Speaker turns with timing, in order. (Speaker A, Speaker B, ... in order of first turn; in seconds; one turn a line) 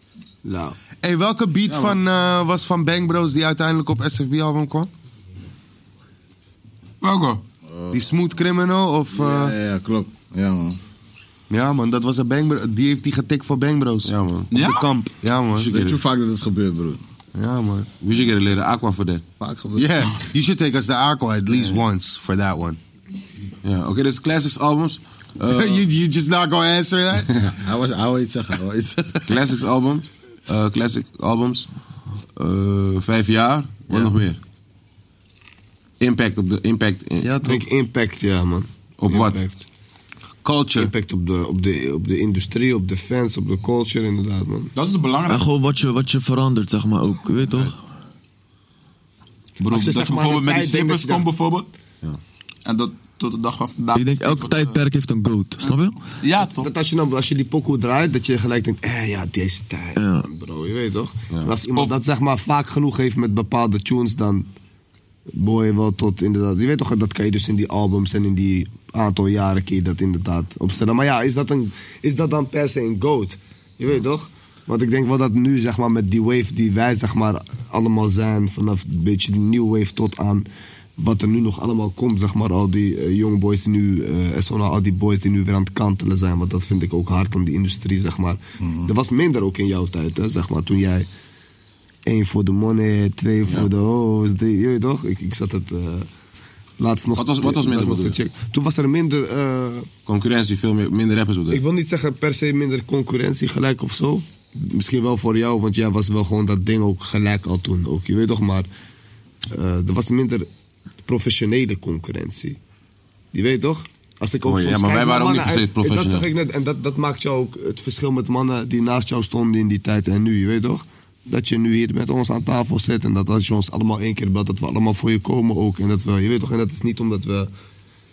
Speaker A: 0.4-0.8
Speaker B: 1.0-4.9
Speaker C: 1.7-2.0
Speaker D: 7.0-7.4
Speaker E: 7.7-8.1
Speaker B: 7.9-9.6
Speaker E: 9.1-10.8
Speaker B: 11.5-15.7
Speaker C: 14.1-14.5
Speaker D: 14.5-14.9
Speaker E: 15.6-17.0
Speaker C: 15.7-16.0
Speaker B: 17.4-17.9
Speaker C: 18.0-19.2
Speaker E: 19.4-19.9
Speaker B: 19.8-22.8
Speaker C: 23.6-25.8
Speaker B: 25.5-27.5
Speaker E: 27.5-29.0
Speaker C: 29.3-31.7
Speaker C: 32.4-34.4
Speaker C: 36.0-37.3
Speaker A: 37.2-39.6
Speaker B: 37.3-37.6
Speaker C: 39.0-39.4
Speaker B: 40.4-40.9
Speaker A: 40.8-44.7
Speaker D: 44.8-45.5
Speaker F: 45.2-47.8
Speaker D: 49.6-51.7
Speaker A: 49.7-51.3
Speaker D: 52.7-54.8
Speaker F: 53.9-56.1
Speaker D: 55.6-56.7
Speaker A: 56.5-64.5
Speaker F: 60.0-60.3
Speaker A: 65.3-80.5
Speaker A: 81.0-91.1
Speaker E: 88.6-88.9
Speaker A: 92.1-96.1
Speaker A: 96.8-99.9
Speaker C: 97.2-98.2
Speaker C: 100.1-101.6
Speaker A: 101.5-108.7
Speaker A: 109.5-110.5
Speaker A: 111.0-112.6
Speaker A: 113.3-127.5
Speaker C: 114.5-116.3